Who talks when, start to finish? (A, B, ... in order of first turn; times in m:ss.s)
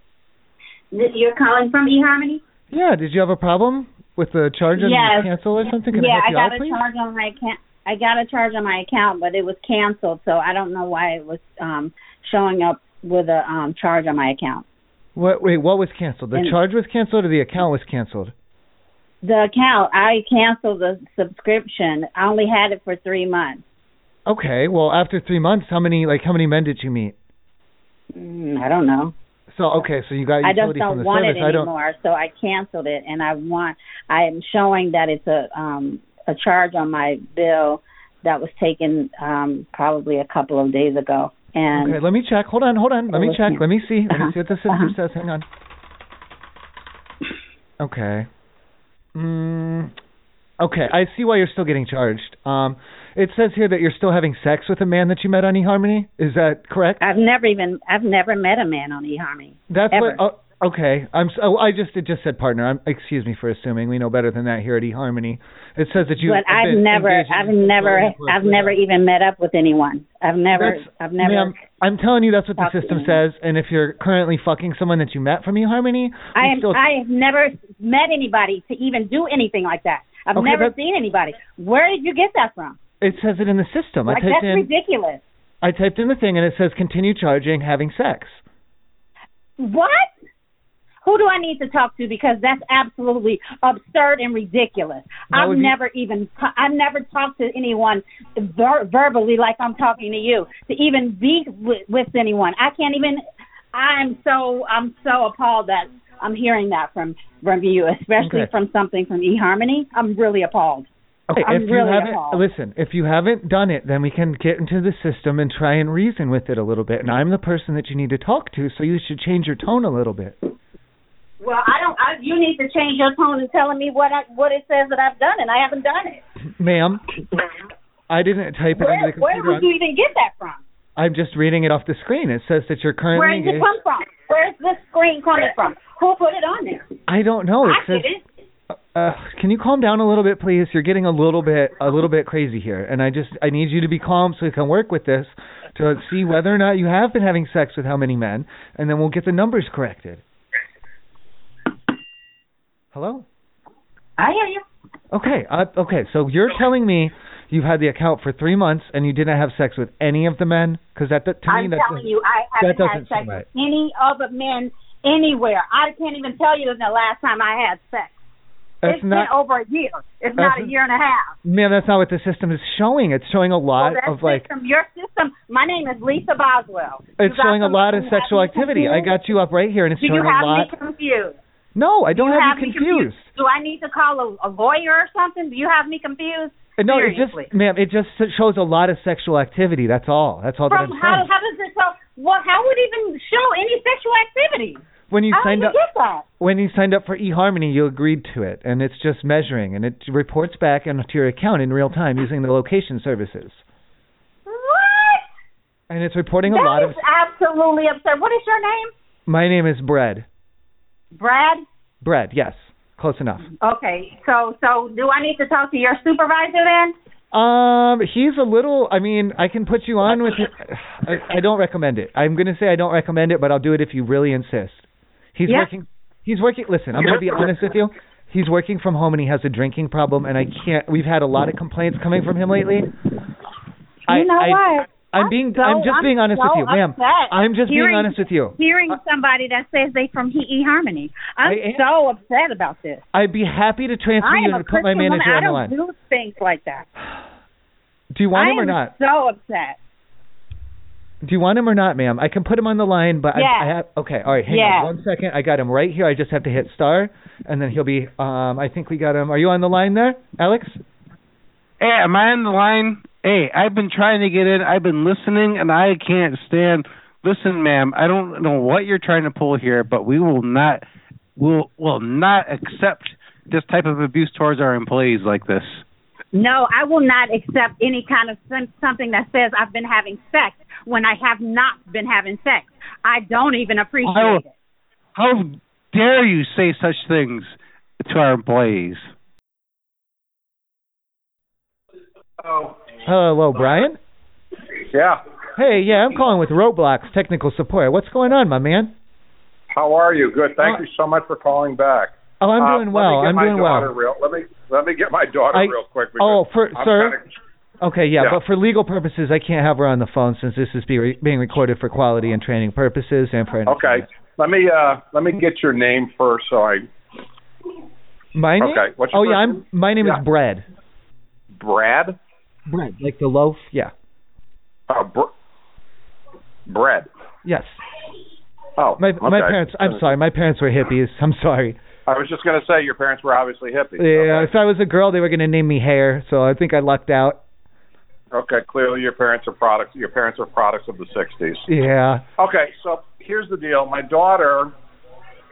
0:00.9-0:02.4 A
0:02.7-0:06.8 B
0:04.8-0:05.3 A
0:05.9-0:14.6 A
0:15.2-0:18.3 B
0:19.2-0:23.6 A
0:24.2-0:27.1 B
0:28.1-0:29.1 A
0:29.5-0:31.7 B
0:30.4-0:42.0 A
0:41.7-0:45.4 B
0:43.1-0:44.9 A
0:47.8-0:48.3 B
0:49.1-0:49.9 B
0:50.6-0:57.0 B
0:57.0-1:00.2 A
0:59.7-1:08.8 B
1:06.2-1:11.6 A
1:10.6-1:16.8 B
1:12.6-1:13.2 A
1:16.3-1:22.8 A
1:20.4-1:20.7 B
1:23.0-1:24.7 B
1:24.1-1:25.2 A
1:25.6-1:28.4 B
1:29.6-1:30.1 A
1:31.0-1:43.2 A
1:35.3-1:35.7 B
1:43.7-1:50.9 A
1:48.2-1:48.5 B
1:51.3-2:00.4 B
1:51.4-1:52.4 A
2:01.4-2:06.2 A
2:06.6-2:07.0 B
2:08.1-2:09.6 B
2:08.8-2:10.6 A
2:11.0-2:13.7 B
2:13.1-2:16.9 A
2:17.1-2:18.0 B
2:17.6-2:18.2 A
2:18.9-2:30.2 B
2:32.9-2:33.2 B
2:34.2-2:34.6 A
2:35.1-2:42.0 B
2:41.5-2:48.2 A
2:42.6-2:43.4 B
2:48.8-2:49.3 B
2:48.9-2:51.3 A
2:50.4-2:50.7 B
2:51.4-2:54.5 B
2:53.8-2:59.2 A
2:57.2-3:00.7 B
3:00.0-3:01.4 A
3:01.7-3:03.3 B
3:02.1-3:07.5 A
3:06.8-3:11.3 B
3:10.7-3:14.8 A
3:15.1-3:15.7 B
3:15.3-3:16.2 A
3:16.4-3:23.6 B
3:24.5-3:25.3 A
3:25.9-3:27.0 B
3:26.5-3:28.9 A
3:29.3-3:30.2 B
3:31.1-3:31.6 A
3:32.0-3:33.5 B
3:33.6-3:36.9 A
3:37.3-3:52.9 B
3:54.1-3:58.6 B
3:54.1-4:03.0 A
4:01.4-4:01.8 B
4:03.1-4:05.7 B
4:04.2-4:06.9 A
4:08.1-4:08.9 B
4:08.3-4:09.8 A
4:11.2-4:20.8 B
4:13.3-4:13.7 A
4:14.5-4:14.9 A
4:21.8-4:30.8 C
4:31.4-4:35.8 C
4:36.3-4:44.5 A
4:44.1-4:44.4 C
4:45.1-4:49.1 C
4:52.4-4:52.7 D
4:53.0-4:54.0 B
4:55.6-4:58.9 B
4:59.7-5:07.2 D
5:02.4-5:03.9 B
5:05.5-5:07.2 B
5:07.8-5:14.0 B
5:13.7-5:16.8 D
5:18.3-5:20.6 B
5:18.6-5:20.2 D
5:21.6-5:22.1 D
5:22.7-5:23.9 B
5:24.9-5:25.3 D
5:26.7-5:27.0 D
5:27.4-5:27.8 B
5:28.8-5:30.0 D
5:29.0-5:31.8 B
5:32.1-5:34.5 D
5:34.0-5:37.4 B
5:38.3-5:41.6 D
5:41.7-5:42.2 B
5:42.4-5:44.7 D